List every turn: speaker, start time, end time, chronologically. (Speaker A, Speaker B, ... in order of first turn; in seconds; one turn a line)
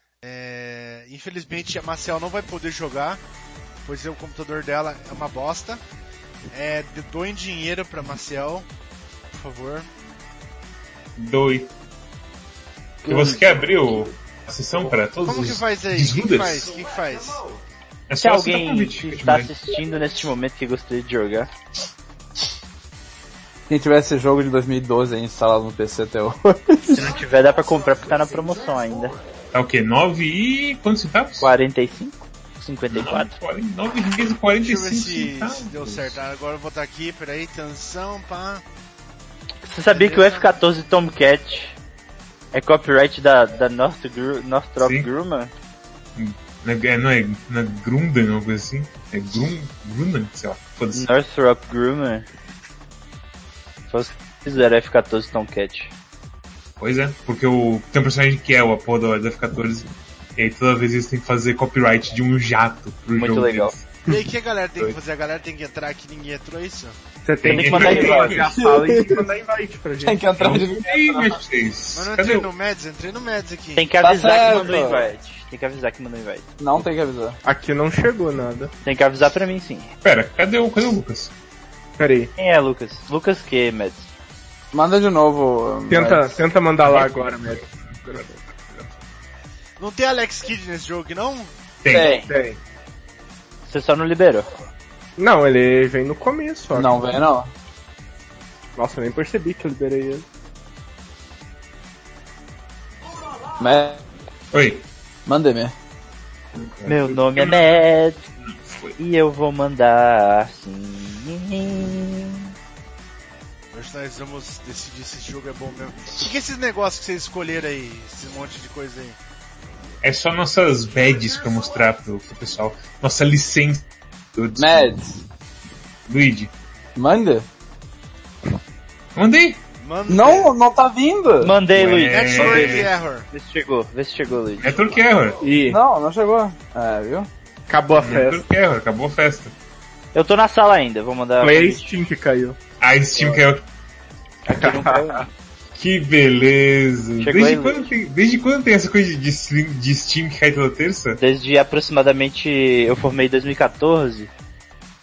Speaker A: 0.2-3.2
Speaker A: 3.9-5.8
Speaker A: 6.5-8.7
Speaker A: 9.3-9.9
Speaker B: 11.2-11.7
Speaker C: 13.0-13.6
Speaker B: 13.1-16.7
Speaker A: 15.2-17.4
Speaker B: 18.1-19.5
Speaker C: 18.2-21.5
Speaker D: 23.7-27.0
Speaker C: 26.9-29.1
Speaker B: 29.5-31.5
Speaker C: 31.4-33.3
Speaker B: 32.9-36.2
Speaker A: 34.6-38.6
Speaker C: 39.6-41.8
Speaker A: 39.9-40.6
Speaker C: 42.5-45.5
Speaker B: 44.8-45.1
Speaker B: 46.2-51.1
Speaker C: 50.9-52.3
Speaker C: 53.9-55.9
Speaker B: 56.8-63.9
Speaker C: 63.1-63.8
Speaker A: 64.1-67.0
Speaker E: 67.2-70.5
Speaker B: 67.4-68.6
Speaker C: 67.5-68.5
Speaker D: 68.6-69.2
Speaker D: 70.0-71.4
Speaker B: 70.4-72.5
Speaker A: 71.9-73.9
Speaker C: 73.8-76.5
Speaker D: 74.0-75.1
Speaker D: 76.6-77.4
Speaker E: 77.4-78.7
Speaker C: 78.8-79.9
Speaker B: 80.0-81.3
Speaker E: 82.0-82.3
Speaker C: 82.4-84.1
Speaker D: 84.7-86.3
Speaker E: 85.9-88.4
Speaker B: 86.9-87.2
Speaker A: 89.8-91.5
Speaker B: 91.8-92.2
Speaker D: 91.9-92.3
Speaker C: 92.0-92.3
Speaker E: 92.3-92.6
Speaker C: 93.7-94.5
Speaker E: 95.2-97.0
Speaker D: 96.8-97.5
Speaker E: 98.8-100.2
Speaker D: 103.6-104.0
Speaker B: 104.5-104.8
Speaker D: 105.3-105.7
Speaker B: 106.5-107.8
Speaker C: 106.9-108.2
Speaker B: 108.6-109.0
Speaker C: 109.0-112.5
Speaker A: 113.7-119.2
Speaker B: 120.0-125.0
Speaker D: 124.6-125.2
Speaker B: 126.1-126.5
Speaker D: 127.0-127.5
Speaker B: 129.2-129.6
Speaker A: 129.8-130.5
Speaker D: 130.1-131.6
Speaker C: 131.4-134.9
Speaker B: 131.7-132.9
Speaker A: 132.1-133.3
Speaker B: 134.6-135.4
Speaker E: 135.4-135.8
Speaker D: 135.7-137.3
Speaker E: 137.7-138.5
Speaker B: 138.0-139.5
Speaker C: 140.1-142.0
Speaker E: 141.4-142.6
Speaker B: 142.8-143.7
Speaker C: 144.5-145.3
Speaker E: 144.6-145.3
Speaker B: 145.8-151.2
Speaker C: 147.2-147.9
Speaker C: 151.2-154.3